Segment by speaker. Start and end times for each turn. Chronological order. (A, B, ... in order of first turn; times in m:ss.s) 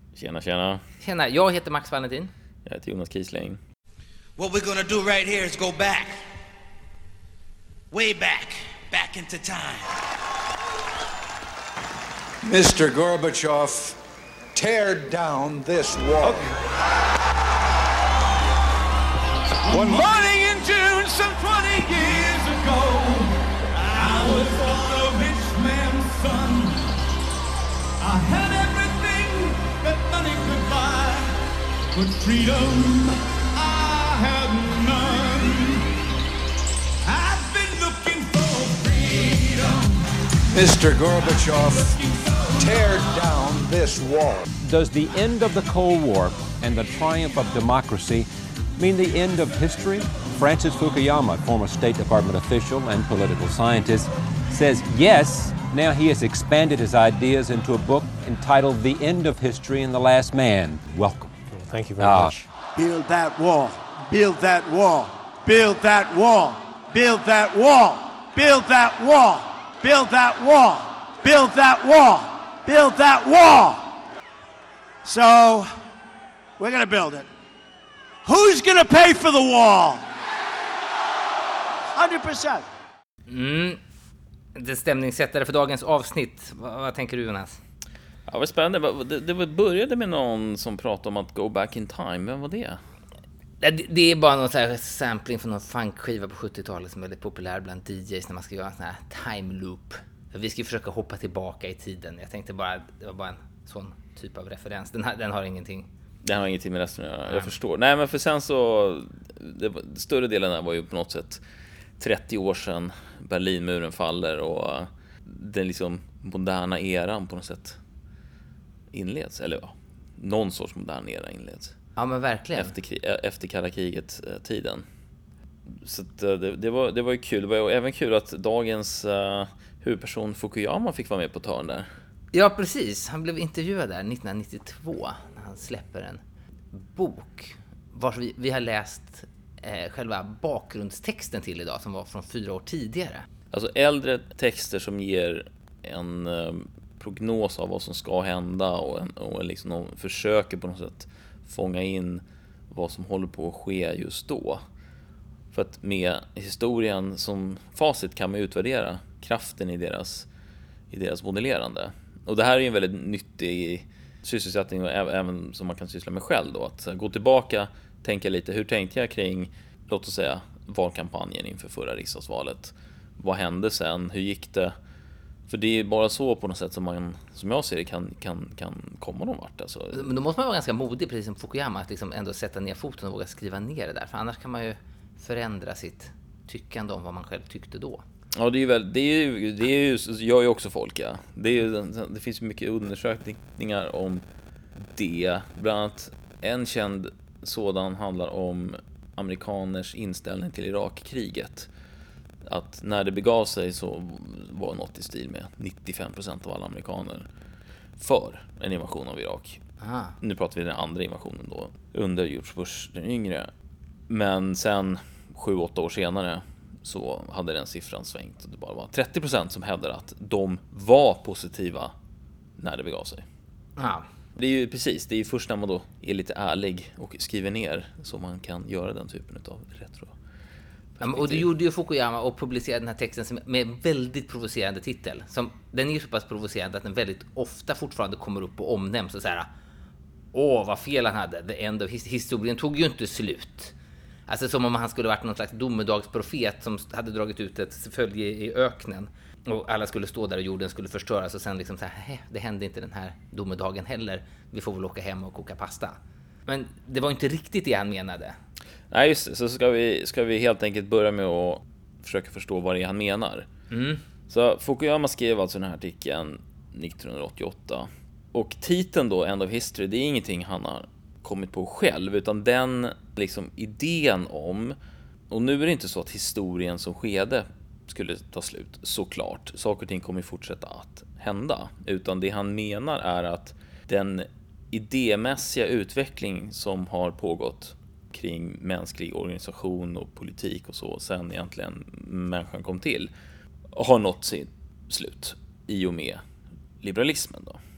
0:00.1-0:00.8 A
0:01.0-0:02.3 B
0:02.6-0:03.6 A
0:04.4-0:06.2 C
0:07.9-0:10.0 C
0:12.4-0:14.0 D
0:14.5-0:16.5 D
0:19.7-0:26.8 E
0:19.7-0:20.0 D
0:28.0-0:31.3 E
0:31.9-0:35.8 E
0:37.0-0:39.9 E
0:40.5-0:42.0 D
0:42.6-0:44.4 D
0:44.6-1:01.4 F
1:02.0-1:02.4 F
1:02.7-1:13.9 G
1:15.0-1:15.7 G
1:16.6-1:17.3 G
1:18.2-1:20.0 G
1:21.9-1:22.7 G
1:23.3-1:23.8 B
1:24.5-1:27.6 B
1:28.3-1:32.8 A
1:33.6-1:45.9 B
1:46.2-1:51.4 A
1:47.3-1:47.5 B
1:52.0-1:57.8 A
1:58.9-2:01.7 A
2:02.0-2:02.7 B
2:02.6-2:04.8 A
2:05.7-2:11.9 A
2:12.3-2:16.2 B
2:16.7-2:23.2 B
2:23.5-2:34.6 A
2:35.5-2:40.3 A
2:40.9-2:54.7 A
2:55.5-3:00.1 A
2:59.9-3:08.0 B
3:08.3-3:14.2 A
3:14.9-3:21.7 A
3:22.4-3:27.3 A
3:28.0-3:29.6 A
3:29.8-3:30.2 B
3:30.2-3:33.5 A
3:34.1-3:41.9 A
3:42.6-3:43.2 A
3:43.8-3:44.0 B
3:44.4-3:50.1 A
3:51.0-3:51.5 A
3:51.0-3:59.5 B
4:00.3-4:03.7 B
4:04.3-4:18.4 B
4:18.9-4:23.5 A
4:23.7-4:24.0 B
4:24.3-4:34.8 A
4:35.3-4:53.1 A
4:53.7-4:56.2 A
4:56.8-4:57.6 A